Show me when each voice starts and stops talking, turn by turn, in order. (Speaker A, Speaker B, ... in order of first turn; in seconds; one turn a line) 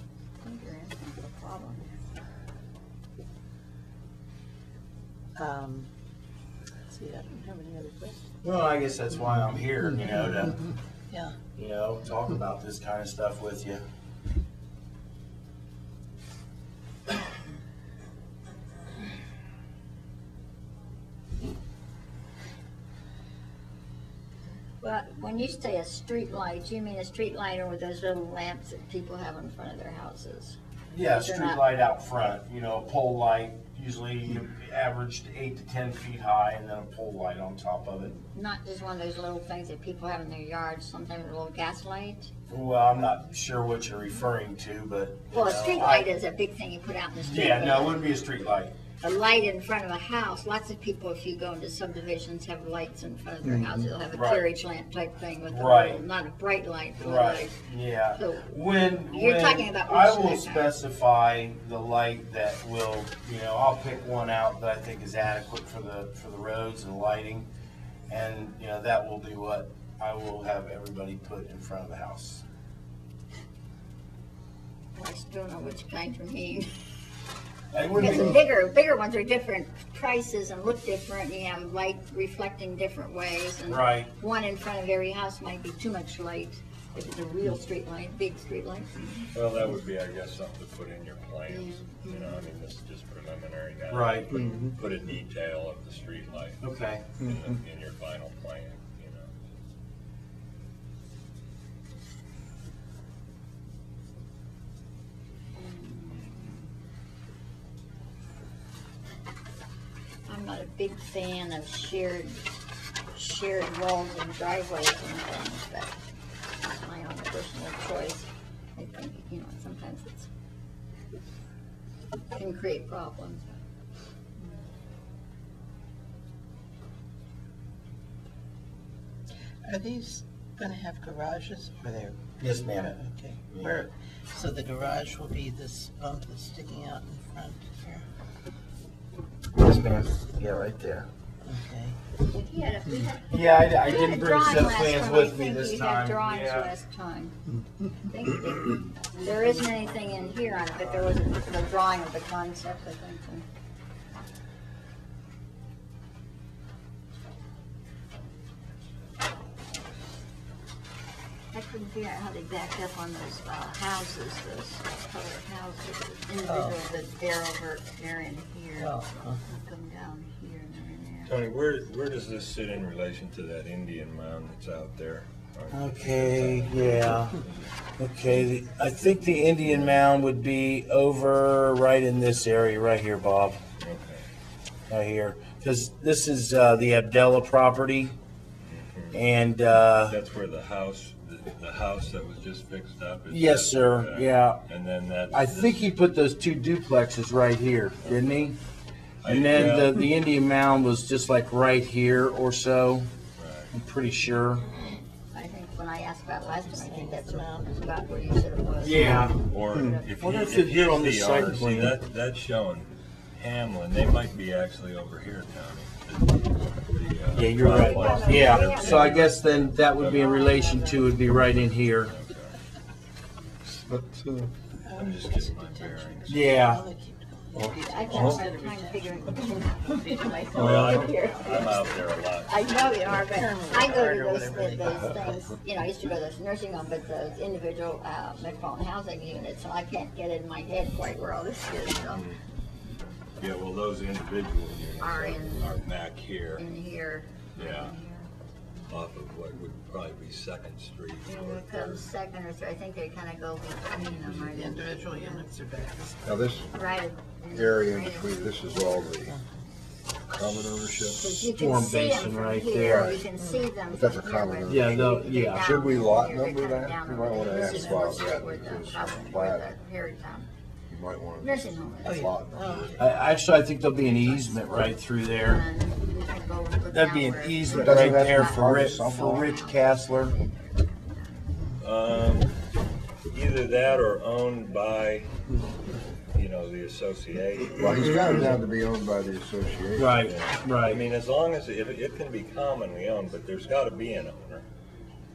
Speaker A: 0.4-1.9
Speaker B: 5.4-5.9
Speaker B: 6.9-8.2
Speaker C: 8.4-10.7
Speaker B: 11.1-11.3
Speaker C: 11.6-13.8
Speaker A: 24.8-30.6
Speaker C: 30.9-38.2
Speaker A: 31.2-31.6
Speaker A: 38.2-42.3
Speaker C: 42.5-46.1
Speaker A: 45.3-48.1
Speaker C: 47.2-48.7
Speaker A: 49.0-57.6
Speaker C: 54.1-54.5
Speaker C: 55.5-56.0
Speaker C: 57.0-67.5
Speaker A: 58.1-60.7
Speaker C: 68.1-72.4
Speaker A: 75.0-76.7
Speaker C: 77.7-78.4
Speaker A: 78.0-89.2
Speaker C: 83.7-84.1
Speaker D: 89.3-99.4
Speaker A: 91.5-92.5
Speaker C: 93.9-94.6
Speaker C: 96.6-97.1
Speaker A: 105.5-106.7
Speaker A: 110.3-112.4
Speaker A: 113.1-116.0
Speaker A: 116.6-120.3
Speaker A: 122.3-123.5
Speaker B: 129.6-138.1
Speaker C: 132.4-133.8
Speaker C: 139.5-141.1
Speaker B: 141.4-142.0
Speaker A: 142.3-147.3
Speaker C: 143.3-146.8
Speaker A: 148.0-153.4
Speaker A: 161.5-171.4
Speaker B: 166.4-166.8
Speaker B: 168.8-169.4
Speaker D: 171.3-177.7
Speaker C: 175.7-177.4
Speaker C: 178.0-183.6
Speaker D: 179.2-180.0
Speaker D: 183.8-184.2
Speaker C: 184.9-188.1
Speaker D: 188.6-189.2
Speaker C: 189.1-190.2
Speaker D: 190.1-195.9
Speaker C: 193.3-194.6
Speaker C: 195.3-198.6
Speaker D: 198.0-198.3
Speaker D: 199.2-200.0
Speaker C: 199.2-203.1
Speaker D: 203.4-203.7
Speaker C: 203.7-204.6
Speaker A: 205.3-210.1
Speaker B: 206.6-207.8
Speaker C: 208.8-209.4
Speaker D: 209.3-220.8
Speaker C: 210.2-211.9
Speaker C: 217.3-222.1
Speaker A: 217.7-219.3
Speaker A: 220.0-221.2
Speaker D: 221.6-222.6
Speaker B: 224.8-231.9
Speaker D: 224.9-226.7
Speaker C: 226.3-226.8
Speaker A: 227.8-242.2
Speaker D: 230.5-233.3
Speaker C: 230.6-231.0
Speaker B: 232.9-235.6
Speaker D: 241.9-242.4
Speaker D: 243.4-246.7
Speaker A: 245.0-245.8
Speaker A: 246.6-248.3
Speaker D: 247.6-248.0
Speaker D: 248.9-252.1
Speaker A: 251.2-255.4
Speaker B: 254.0-256.6
Speaker E: 256.2-256.7
Speaker A: 256.7-259.1
Speaker E: 257.5-259.4
Speaker D: 260.3-261.5
Speaker A: 261.2-270.5
Speaker C: 261.5-263.1
Speaker E: 262.8-263.3
Speaker B: 263.3-263.7
Speaker E: 263.9-269.7
Speaker C: 264.7-265.7
Speaker B: 267.7-268.4
Speaker E: 270.9-273.0
Speaker A: 271.4-272.3
Speaker B: 272.0-273.1
Speaker C: 273.0-275.6
Speaker A: 273.9-274.8
Speaker A: 275.4-281.4
Speaker C: 276.9-280.3
Speaker E: 277.7-279.5
Speaker D: 281.8-282.6
Speaker D: 283.3-285.3
Speaker D: 286.3-288.5
Speaker E: 287.7-290.2
Speaker C: 287.9-288.4
Speaker C: 290.0-291.0
Speaker D: 290.2-294.6